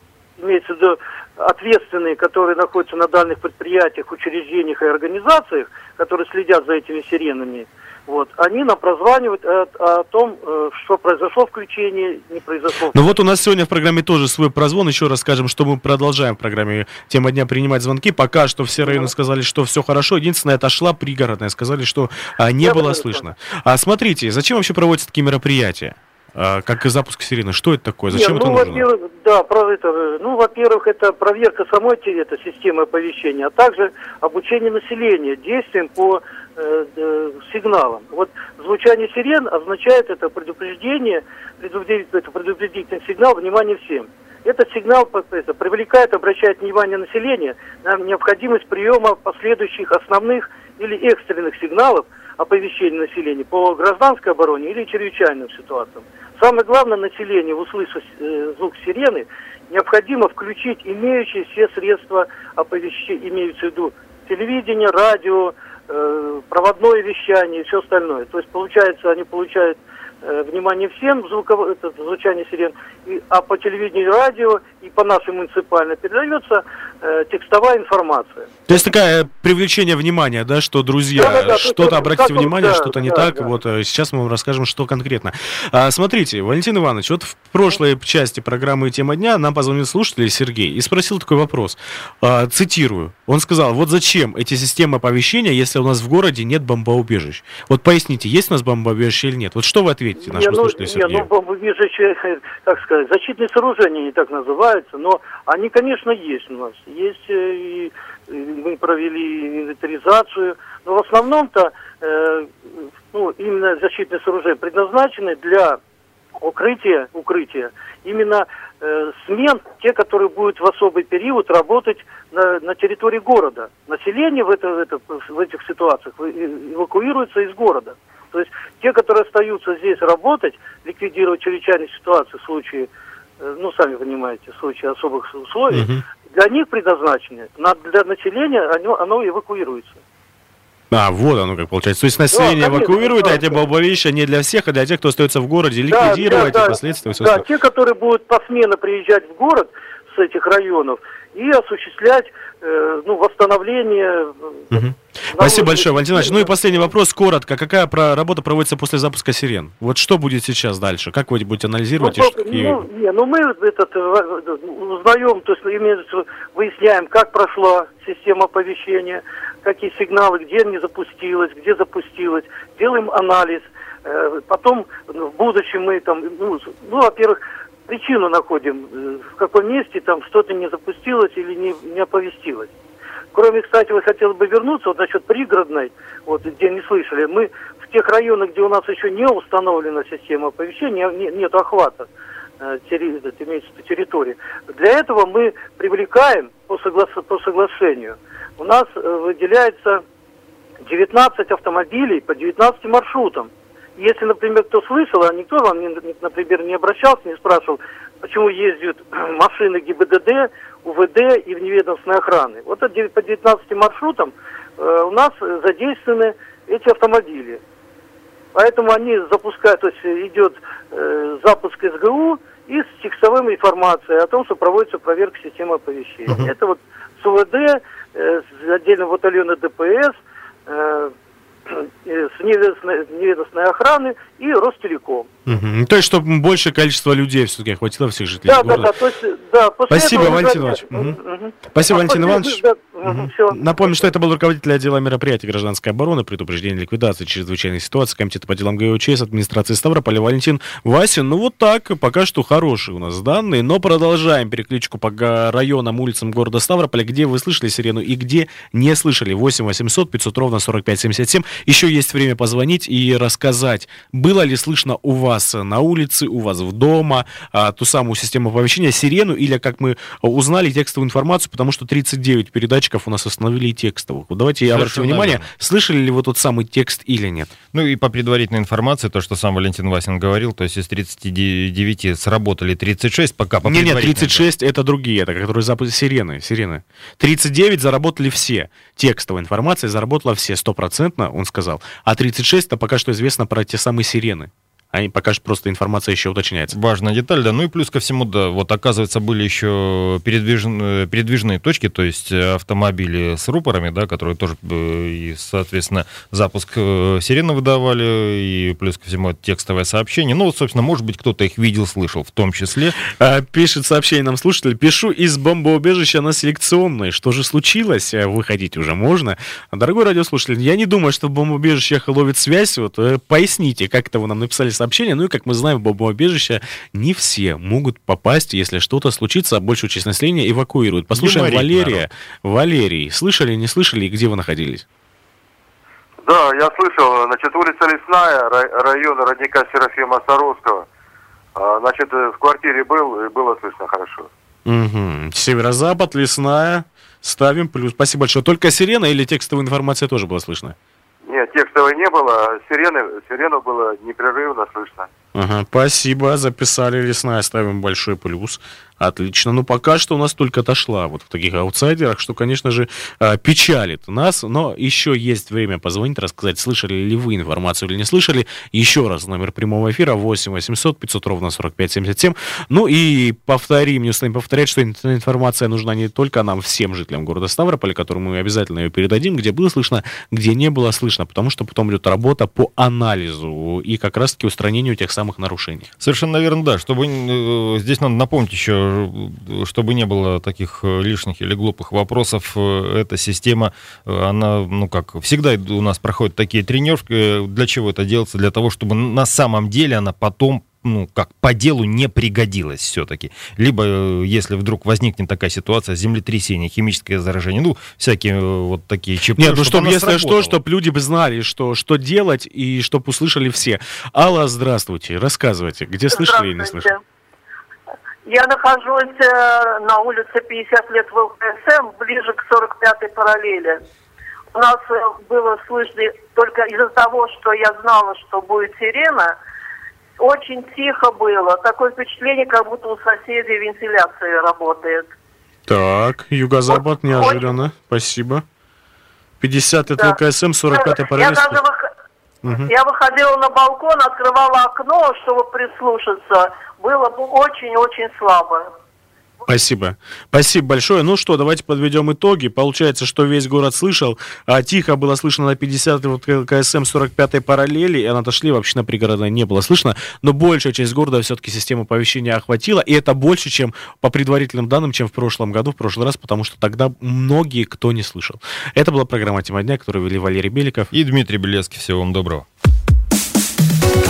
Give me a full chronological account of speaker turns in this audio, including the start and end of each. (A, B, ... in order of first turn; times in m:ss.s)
0:00.4-0:13.1 A
0:12.9-0:28.8 B
0:18.8-0:19.1 A
0:22.6-0:23.2 A
0:28.1-1:18.5 A
1:18.7-1:41.3 B
1:21.2-1:23.5 A
1:40.2-1:52.5 A
1:53.1-1:55.8 A
1:56.4-2:12.9 A
2:13.4-2:20.0 A
2:15.7-2:16.0 B
2:20.9-2:27.4 B
2:22.3-2:23.6 A
2:25.9-2:34.6 A
2:34.7-2:42.8 B
2:35.3-2:36.5 A
2:42.0-3:02.7 A
3:03.3-3:12.1 A
3:12.6-3:20.0 A
3:20.8-3:37.6 A
3:38.5-3:51.1 A
3:51.7-3:55.3 A
3:55.4-3:58.9 B
3:58.4-4:03.6 A
3:59.9-4:37.5 B
4:34.6-4:35.4 C
4:37.7-4:44.5 C
4:43.6-4:56.7 B
4:56.7-5:13.0 C
5:13.1-5:34.8 B
5:31.1-5:32.0 C
5:36.2-5:40.8 D
5:41.6-5:44.3 D
5:44.6-5:50.7 B
5:51.3-5:55.1 D
5:55.3-6:25.9 B
6:26.0-6:50.6 C
6:49.4-6:56.9 B
6:56.1-6:57.0 E
6:58.2-7:03.8 E
7:04.5-7:09.3 E
7:10.2-7:15.1 E
7:15.7-7:18.4 B
7:16.7-7:17.6 E
7:19.4-7:21.6 B
7:19.9-7:20.2 E
7:20.7-7:21.8 E
7:22.4-7:22.7 B
7:22.6-7:28.6 E
7:29.5-7:50.9 B
7:50.9-7:52.4 C